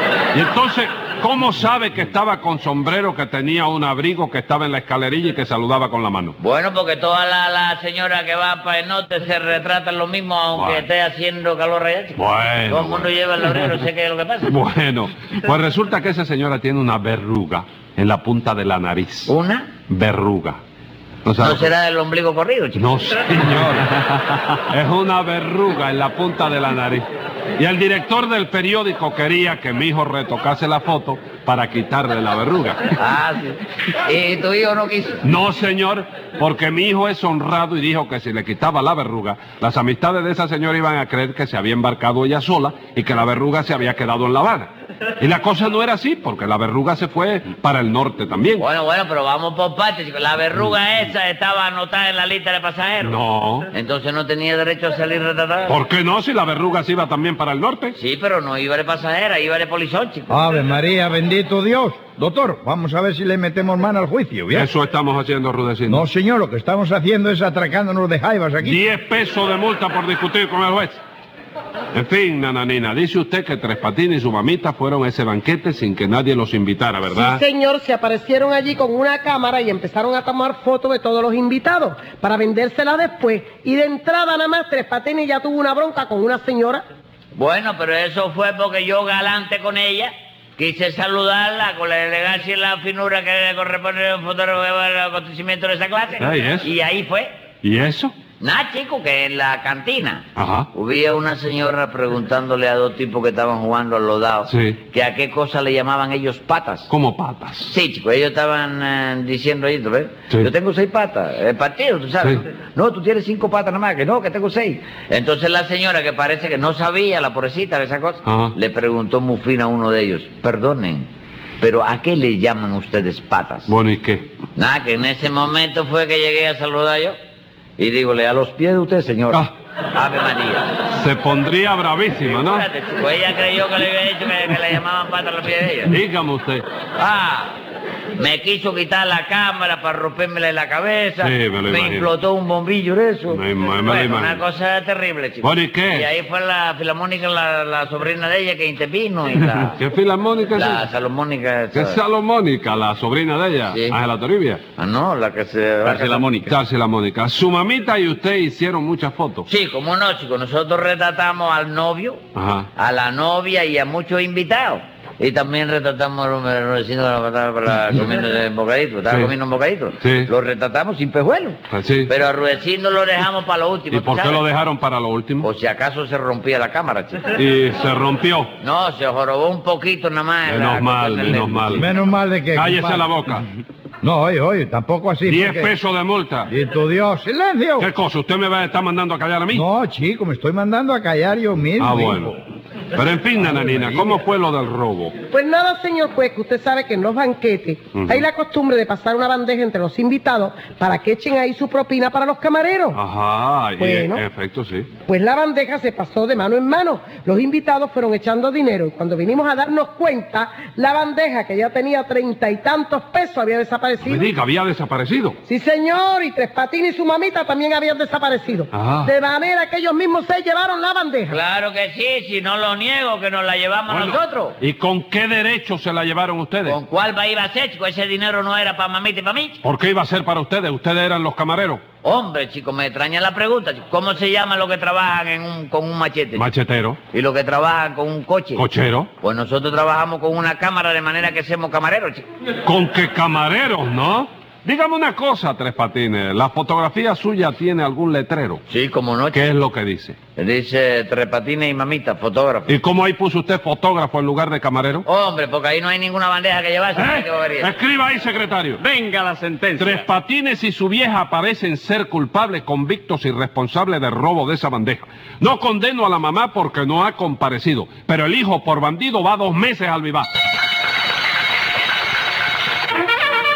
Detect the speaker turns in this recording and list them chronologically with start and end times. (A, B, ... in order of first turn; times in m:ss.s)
0:00.3-0:06.4 A
0:06.4-0:14.6 B
0:10.6-0:10.9 A
0:12.2-0:13.1 A
0:14.4-0:19.3 A
0:19.3-0:19.7 B
0:19.9-0:20.6 A
0:21.2-0:21.7 A
0:21.4-0:22.8 B
0:22.8-0:27.1 A
0:27.6-0:32.8 A
0:33.0-0:35.2 B
0:35.2-0:48.7 A
0:48.6-0:53.2 B
0:53.0-0:53.7 A
0:53.7-0:55.8 B
0:55.7-0:58.0 A
0:58.0-1:00.4 B
1:00.3-1:04.7 C
1:04.5-1:06.0 A
1:05.9-1:08.8 C
1:08.6-1:11.0 A
1:11.9-1:17.4 A
1:17.1-1:26.8 D
1:27.4-1:37.3 B
1:36.2-1:36.7 A
1:37.6-1:38.2 A
1:38.4-1:46.9 B
1:40.4-1:40.7 A
1:44.5-1:44.8 A
1:46.9-1:47.7 A
1:47.6-2:01.1 B
1:58.2-1:58.5 A
2:01.6-2:03.7 B
2:03.7-2:04.3 A
2:04.6-2:07.2 B
2:07.8-2:10.8 B
2:10.9-2:12.7 A
2:12.2-2:16.0 B
2:15.9-2:16.6 A
2:17.0-2:17.5 B
2:18.2-2:29.8 B
2:21.2-2:22.1 A
2:23.3-2:24.4 A
2:25.4-2:26.1 A
2:29.8-2:30.9 A
2:30.5-2:32.0 B
2:31.7-2:34.6 A
2:33.7-2:34.0 B
2:34.8-2:36.3 B
2:35.8-2:36.5 E
2:36.4-2:39.5 A
2:39.5-2:42.2 B
2:42.4-2:42.7 A
2:42.8-2:54.4 B
2:49.1-2:49.3 A
2:50.0-2:50.3 A
2:51.7-2:52.1 A
2:53.9-2:55.5 A
2:55.4-2:57.2 B
2:57.3-2:58.5 A
2:58.6-3:01.9 B
3:00.5-3:01.9 A
3:01.7-3:03.1 C
3:02.5-3:03.5 A
3:04.0-3:05.8 C
3:05.2-3:06.5 A
3:06.5-3:07.9 C
3:07.8-3:09.7 A
3:09.5-3:12.3 C
3:11.8-3:12.4 A
3:12.9-3:15.2 A
3:15.3-3:23.0 D
3:18.0-3:18.3 A
3:22.9-3:24.9 A
3:23.8-3:24.2 D
3:25.1-3:34.3 D
3:34.0-3:35.4 A
3:35.5-3:41.4 D
3:38.7-3:39.1 A
3:41.3-3:44.6 B
3:43.9-3:46.8 A
3:46.6-3:49.6 B
3:49.6-3:51.8 A
3:52.0-3:56.4 B
3:56.4-3:57.0 A
3:57.1-3:58.6 B
3:58.6-3:59.1 A
3:59.2-4:02.2 B
4:02.6-4:08.6 A
4:08.7-4:09.6 B
4:09.3-4:10.2 A
4:10.4-4:12.8 B
4:12.7-4:15.1 A
4:15.1-4:17.8 B
4:17.0-4:18.8 A
4:18.8-4:20.1 E
4:19.8-4:30.3 A